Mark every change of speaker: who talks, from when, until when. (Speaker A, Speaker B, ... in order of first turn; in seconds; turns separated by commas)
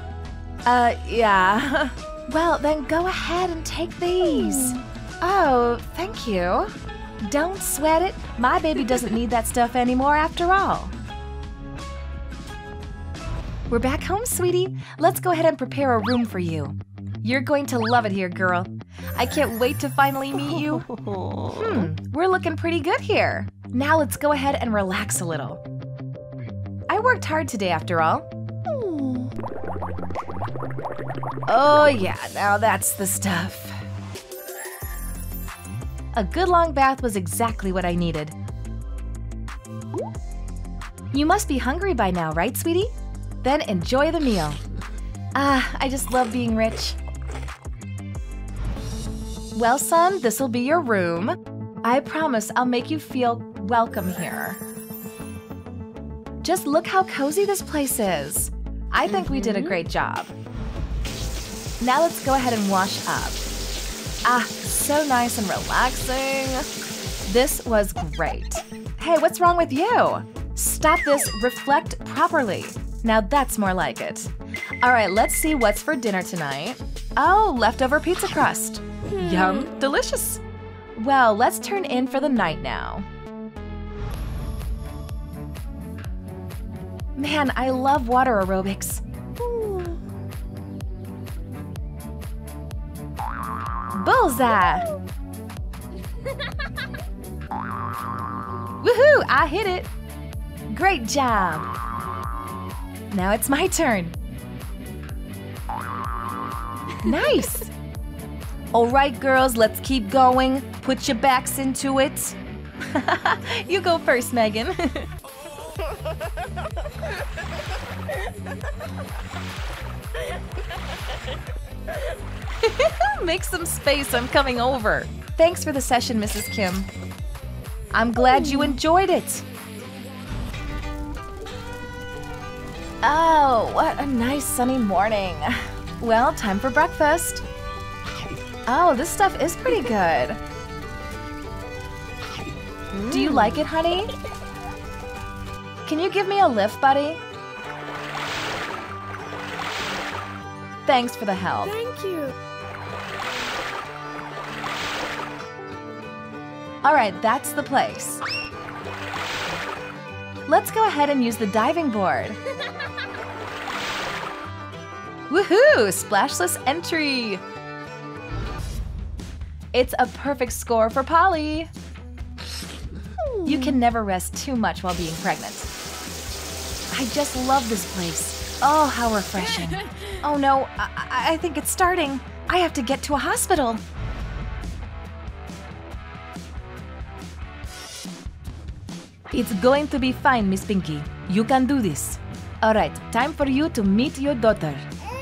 Speaker A: 0.7-10.9, Speaker B: 4.4-4.8, Speaker A: 13.7-20.9, Speaker B: 20.6-21.9, Speaker A: 21.5-25.6, Speaker A: 26.9-28.3, Speaker B: 28.7-29.3, Speaker A: 31.5-33.8, Speaker A: 36.1-38.3, Speaker A: 41.1-42.9, Speaker A: 43.4-44.6, Speaker A: 45.3-47.0, Speaker A: 49.5-54.6, Speaker A: 56.4-60.3, Speaker B: 59.1-59.8, Speaker A: 61.8-63.4, Speaker A: 64.2-66.7, Speaker A: 67.2-74.3, Speaker A: 74.8-80.4, Speaker B: 79.2-79.6, Speaker A: 80.9-83.1, Speaker A: 87.2-89.0, Speaker B: 89.5-90.0, Speaker A: 93.9-94.9, Speaker A: 98.8-99.9, Speaker A: 100.7-101.7, Speaker A: 103.1-104.1, Speaker A: 107.0-107.7, Speaker A: 108.7-115.1, Speaker A: 122.6-126.9, Speaker A: 127.9-129.4, Speaker A: 133.0-137.4, Speaker A: 138.7-140.4, Speaker B: 142.9-143.7, Speaker A: 143.1-144.1, Speaker A: 145.8-147.2, Speaker A: 150.8-151.7, Speaker B: 151.6-152.3, Speaker A: 156.8-158.2, Speaker A: 160.5-162.4, Speaker A: 165.3-167.4, Speaker A: 169.7-171.7, Speaker B: 173.2-173.8, Speaker A: 173.4-175.7, Speaker A: 176.9-183.8, Speaker A: 189.3-194.8